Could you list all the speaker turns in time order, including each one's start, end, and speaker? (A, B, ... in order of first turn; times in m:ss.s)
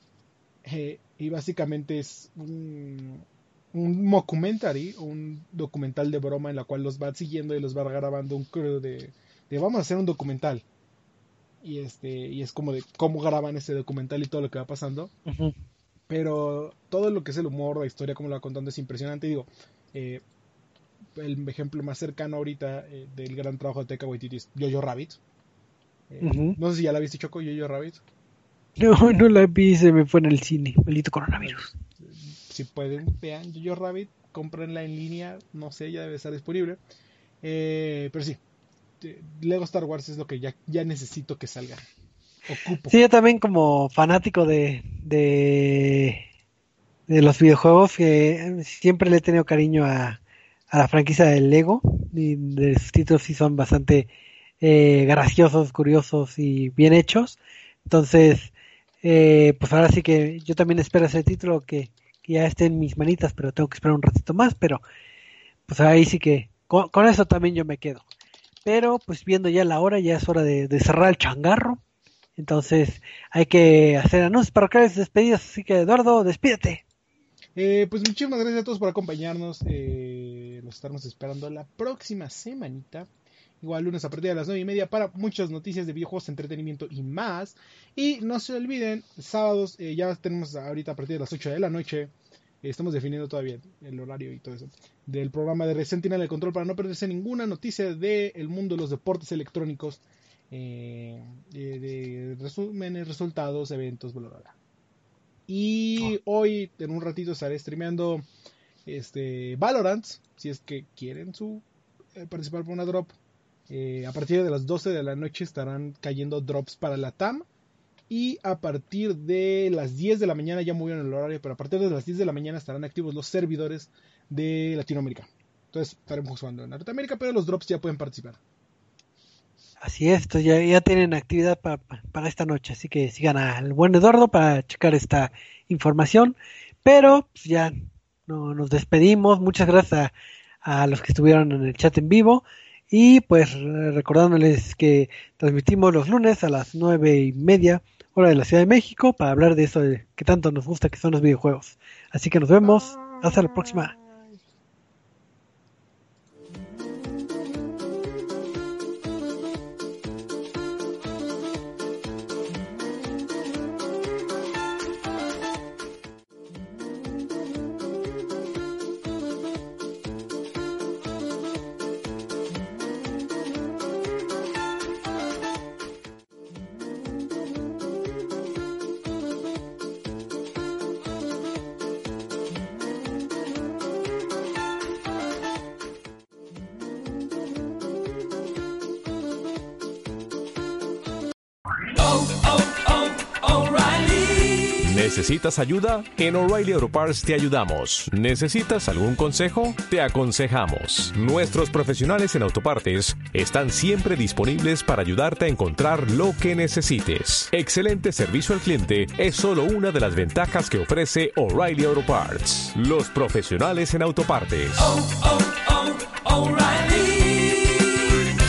0:00.6-0:10.7 A
0:11.6-0:15.1 A
0:15.3-0:15.6 B
0:16.1-0:20.2 A
0:21.2-0:25.2 A
0:26.1-0:28.0 A
0:26.2-0:26.6 B
0:28.8-0:31.7 B
0:31.4-0:36.8 A
0:37.4-0:38.4 A
0:39.0-0:41.8 A
0:42.5-0:43.0 A
0:42.9-0:46.2 B
0:47.1-0:50.2 B
0:50.7-0:54.1 B
0:54.6-0:58.5 B
0:59.0-1:04.8 B
1:05.7-1:08.0 B
1:08.6-1:11.8 B
1:12.4-1:16.8 B
1:17.6-1:23.1 A
1:23.6-1:44.6 A
1:45.5-1:48.2 A
1:48.9-1:53.2 A
1:53.7-1:57.5 A
1:58.1-2:08.4 A
2:09.8-2:17.8 B
2:18.3-2:20.1 B
2:20.6-2:33.9 B
2:32.6-2:34.4 A
3:11.9-3:38.2 C